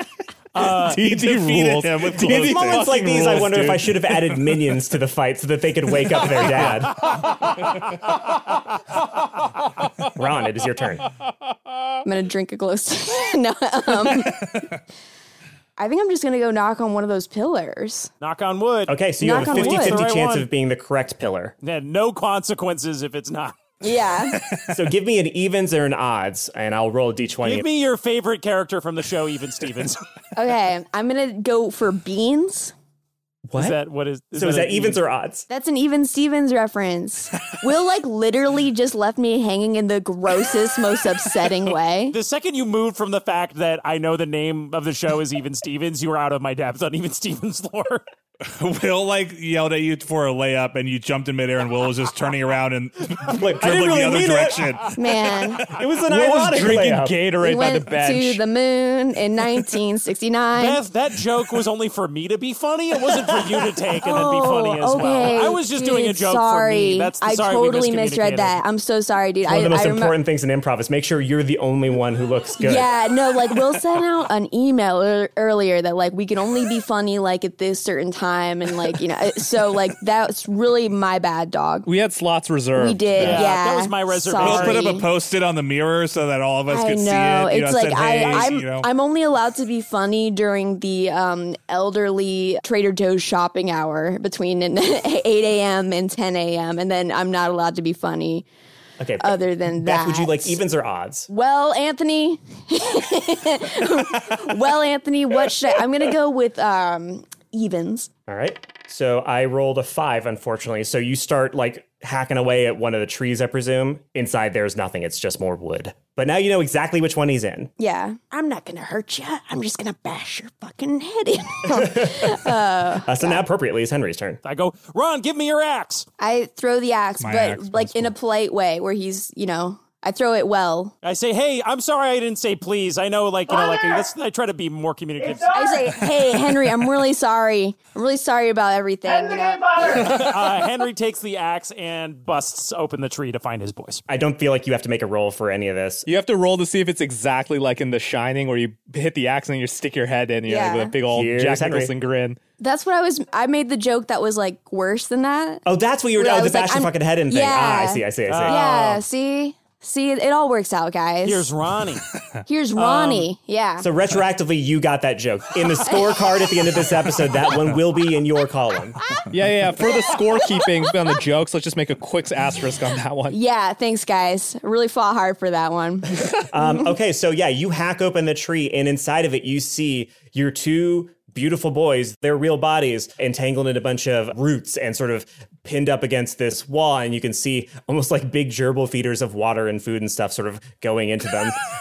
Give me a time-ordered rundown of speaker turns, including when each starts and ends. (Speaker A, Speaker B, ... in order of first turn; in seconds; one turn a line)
Speaker A: 0.5-1.0
Speaker B: 0.6-4.1
Speaker C: 0.9-2.9
Speaker D: 2.2-7.1
Speaker D: 10.1-11.1
Speaker E: 12.0-14.7
Speaker E: 15.8-18.1
Speaker A: 18.2-20.5
Speaker D: 18.9-21.5
Speaker E: 19.2-20.0
Speaker A: 21.6-23.6
Speaker E: 23.8-24.4
Speaker D: 24.6-27.6
Speaker A: 27.4-30.0
Speaker E: 30.3-32.7
Speaker D: 33.5-33.8
Speaker A: 33.5-35.0
Speaker D: 34.3-35.5
Speaker E: 35.5-42.1
Speaker A: 42.1-48.0
Speaker B: 48.5-55.3
Speaker D: 53.3-54.8
Speaker E: 54.9-55.6
Speaker D: 55.6-57.3
Speaker C: 56.1-58.4
Speaker E: 57.3-60.8
Speaker A: 60.5-68.6
Speaker E: 64.0-70.2
Speaker D: 69.4-72.9
Speaker E: 72.6-81.9
Speaker C: 81.8-83.0
Speaker E: 82.7-85.1
Speaker A: 83.2-84.9
Speaker B: 84.4-88.9
Speaker E: 86.7-98.5
Speaker D: 99.0-101.3
Speaker E: 99.2-100.6
Speaker E: 101.3-108.1
Speaker D: 108.3-117.7
Speaker E: 117.8-123.4
Speaker D: 121.7-122.4
Speaker D: 123.0-124.4
Speaker A: 124.4-126.0
Speaker E: 126.2-130.9
Speaker B: 127.2-128.1
Speaker A: 131.0-135.7
Speaker E: 135.5-140.0
Speaker A: 139.9-144.0
Speaker D: 144.1-146.1
Speaker C: 146.1-152.4
Speaker E: 150.4-151.0
Speaker D: 151.1-151.9
Speaker E: 152.6-155.6
Speaker D: 155.7-158.6
Speaker E: 156.1-161.4
Speaker A: 158.3-159.0
Speaker A: 161.2-162.0
Speaker E: 162.4-163.9
Speaker A: 162.7-163.3
Speaker D: 163.8-169.0
Speaker E: 165.9-166.2
Speaker C: 169.3-173.3
Speaker E: 173.3-176.8
Speaker D: 176.5-191.6